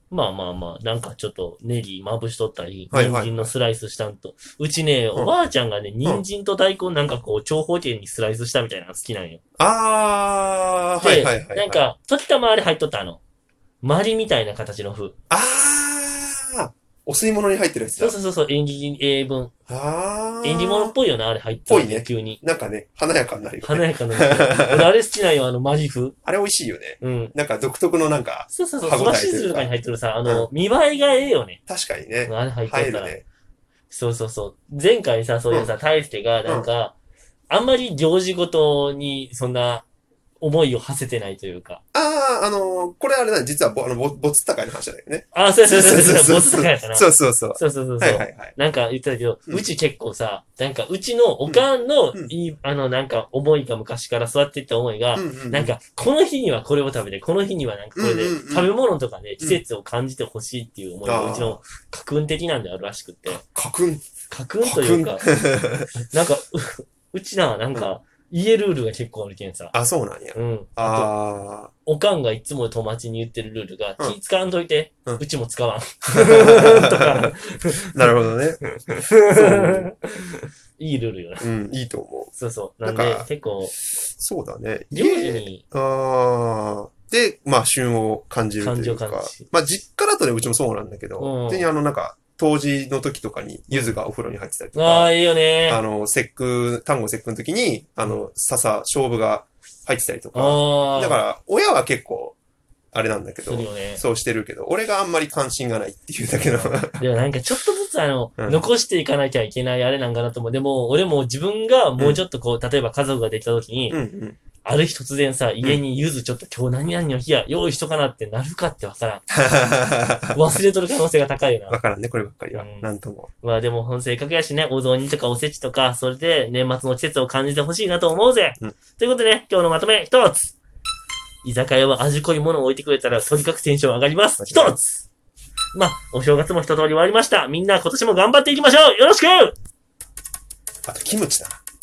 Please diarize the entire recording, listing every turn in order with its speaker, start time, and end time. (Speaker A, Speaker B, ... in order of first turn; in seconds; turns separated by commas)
Speaker A: 0.1-9.4, Speaker B: 2.9-3.5, Speaker B: 9.6-11.9, Speaker A: 11.0-13.2, Speaker A: 13.8-15.2, Speaker B: 15.3-18.2, Speaker A: 18.0-19.5, Speaker B: 19.7-20.9, Speaker A: 20.4-22.4, Speaker B: 21.7-24.9, Speaker A: 23.6-26.1, Speaker B: 26.2-29.7, Speaker A: 27.0-27.3, Speaker A: 28.5-31.6, Speaker B: 31.7-33.2, Speaker A: 32.2-33.2, Speaker A: 33.9-36.9, Speaker A: 37.5-39.8, Speaker A: 40.4-41.8, Speaker B: 41.9-48.5, Speaker A: 45.3-63.4, Speaker B: 51.5-52.3, Speaker B: 55.1-55.7, Speaker B: 58.0-58.7, Speaker B: 61.0-61.6, Speaker B: 63.3-64.0, Speaker A: 64.3-65.3, Speaker B: 64.6-65.9, Speaker A: 65.9-69.7, Speaker B: 69.7-71.7, Speaker A: 70.3-71.1, Speaker A: 71.8-78.1, Speaker B: 76.2-77.3, Speaker B: 77.9-78.6, Speaker A: 78.6-81.5, Speaker B: 79.3-79.9, Speaker B: 81.4-82.3, Speaker A: 82.4-83.7, Speaker B: 82.8-83.3, Speaker B: 83.9-95.1, Speaker A: 84.9-85.6, Speaker A: 88.6-89.4, Speaker A: 91.2-91.7, Speaker A: 94.7-95.8, Speaker B: 95.7-102.3, Speaker A: 100.3-101.2, Speaker B: 102.9-107.0, Speaker A: 103.4-104.0, Speaker A: 106.3-114.0, Speaker B: 108.4-108.6, Speaker B: 113.9-114.4, Speaker A: 114.6-119.3, Speaker B: 119.3-120.4, Speaker A: 120.3-121.8, Speaker B: 121.7-123.3, Speaker A: 122.5-122.9, Speaker A: 123.4-130.5, Speaker A: 131.4-135.0, Speaker B: 134.4-134.8, Speaker A: 135.7-139.5, Speaker B: 140.8-141.6